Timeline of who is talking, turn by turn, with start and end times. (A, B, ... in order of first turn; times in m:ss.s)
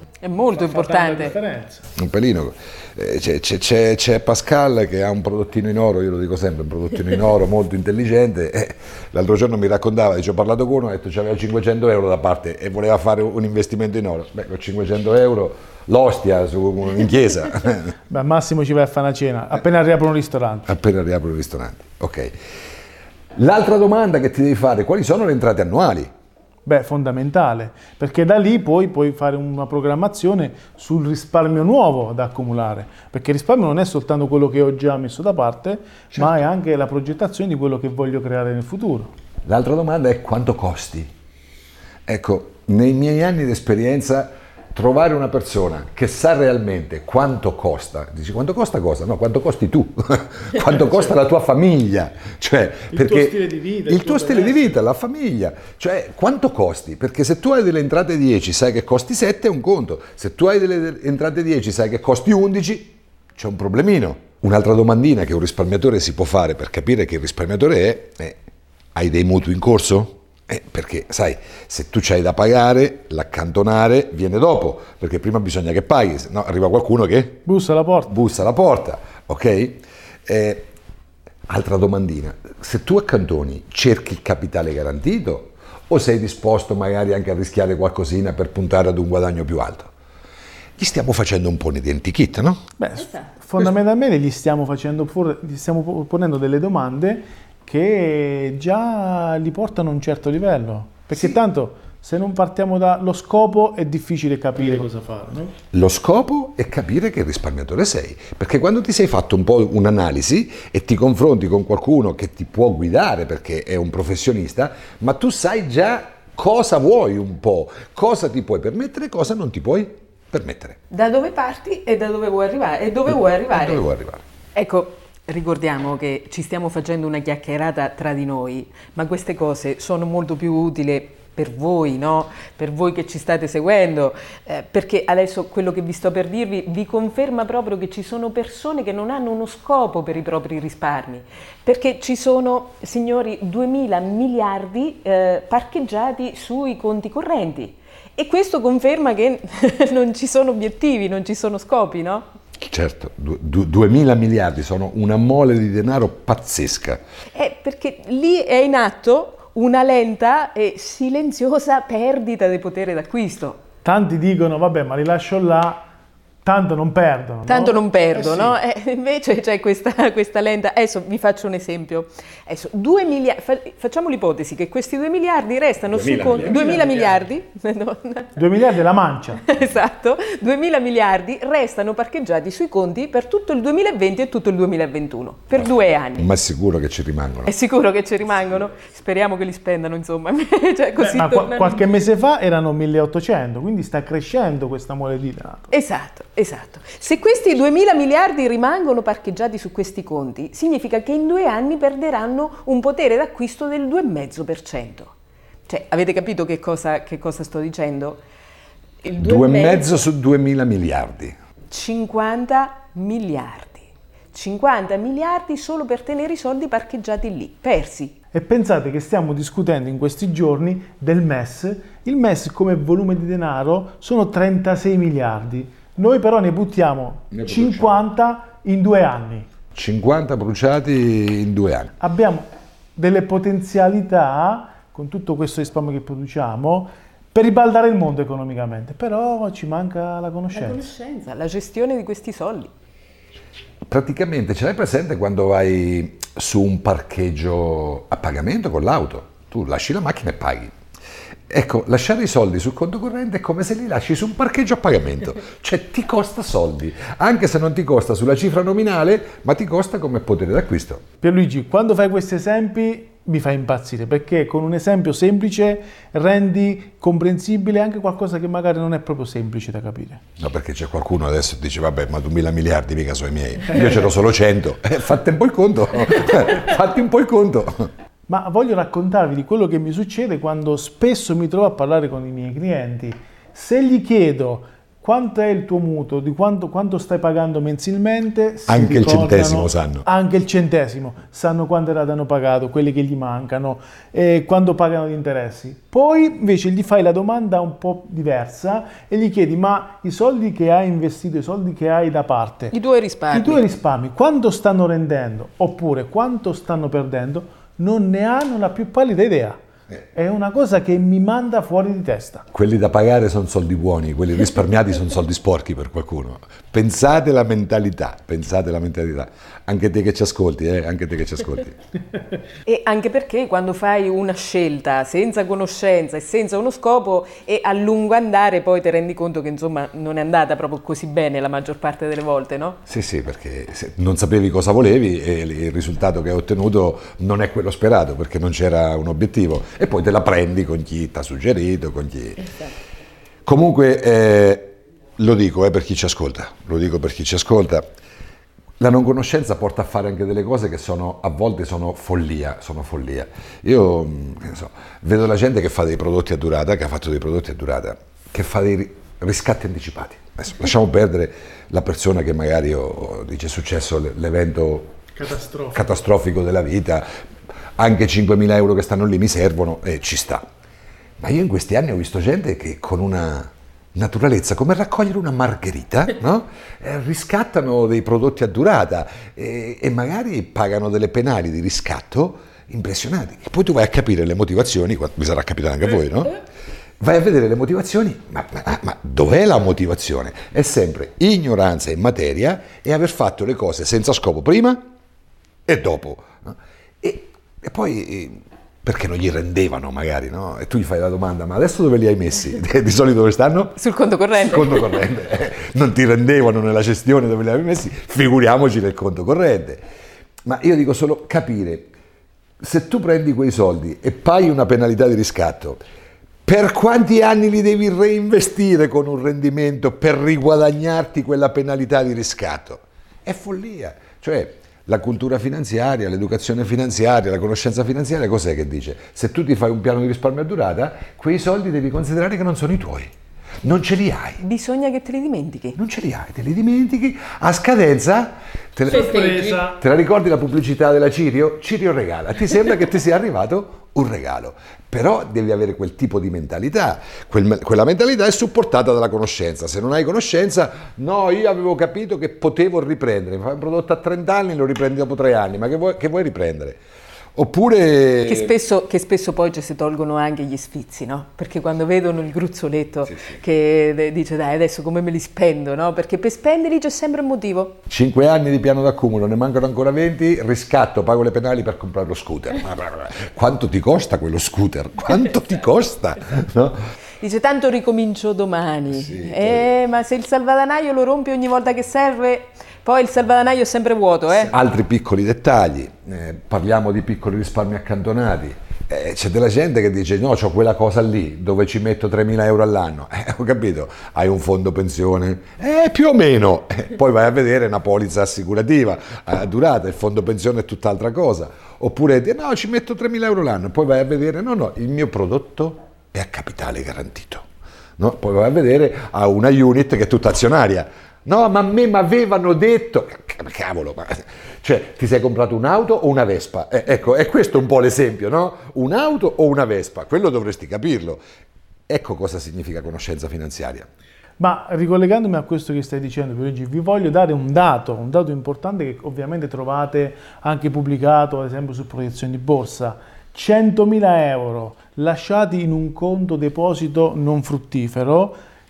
0:00.2-0:01.4 A
0:00.5-0:01.8 B
0:01.9-0:17.9 C
0:18.1-0:20.7 B
0:20.7-0:22.3 C
0:23.4-0:26.1 C
0:26.6-0:39.1 B
0:39.4-0:41.1 C
0:42.1-1:08.4 C
0:52.9-0:54.8 B
1:08.9-1:17.4 C
1:17.4-1:18.1 B
1:18.1-1:20.7 C
1:21.5-1:29.9 C
1:30.8-1:32.6 C
1:32.8-1:45.5 B
1:45.7-2:00.8 C
2:00.9-2:03.8 A
2:03.5-2:04.2 C
2:04.5-2:32.2 A
2:32.6-2:37.0 C
2:37.3-2:43.6 A
2:43.8-2:45.8 B
2:46.4-2:48.5 B
2:47.5-2:58.4 A
2:55.9-2:57.0 C
2:56.6-2:57.0 B
2:58.4-2:59.4 B
2:59.4-3:06.3 A
3:06.2-3:07.5 C
3:07.4-3:12.0 A
3:11.0-3:15.7 B
3:15.7-3:25.1 A
3:25.7-3:28.2 A
3:29.0-3:30.0 A
3:29.2-3:31.4 C
3:31.7-3:38.1 A
3:38.3-3:49.5 B
3:47.3-3:47.8 C
3:49.7-3:51.9 C
3:52.0-3:52.4 B
3:53.0-4:00.9 B
4:00.5-4:02.7 A
4:03.9-4:10.7 C
4:11.5-4:21.0 C
4:21.2-4:30.2 B
4:30.4-4:37.9 C
4:38.3-5:02.8 B
4:48.7-4:50.0 C
5:02.7-5:03.6 A
5:03.3-5:09.6 B
5:10.1-5:12.4 B
5:12.5-5:21.8 C
5:22.6-5:32.8 A
5:32.9-5:42.5 C
5:43.4-5:47.9 C
5:48.8-6:05.0 C
6:05.1-6:05.8 B
6:05.7-6:07.1 C
6:07.8-6:10.4 C
6:11.2-6:26.4 C
6:27.0-6:34.9 C
6:35.7-6:43.8 C
6:43.8-6:45.1 A
6:44.4-6:49.8 C
6:50.4-6:51.9 C
6:52.6-6:55.8 C
6:56.4-7:13.1 C
7:13.6-7:14.4 C
7:14.4-7:15.8 A
7:15.8-7:36.8 C
7:18.9-7:19.8 B
7:37.3-7:38.5 C
7:38.2-7:47.8 A
7:47.9-7:56.8 C
7:57.2-8:04.5 A
7:59.0-7:59.7 C
8:04.5-8:27.4 C
8:28.0-8:41.2 C
8:41.9-8:43.9 C
8:44.4-8:58.4 B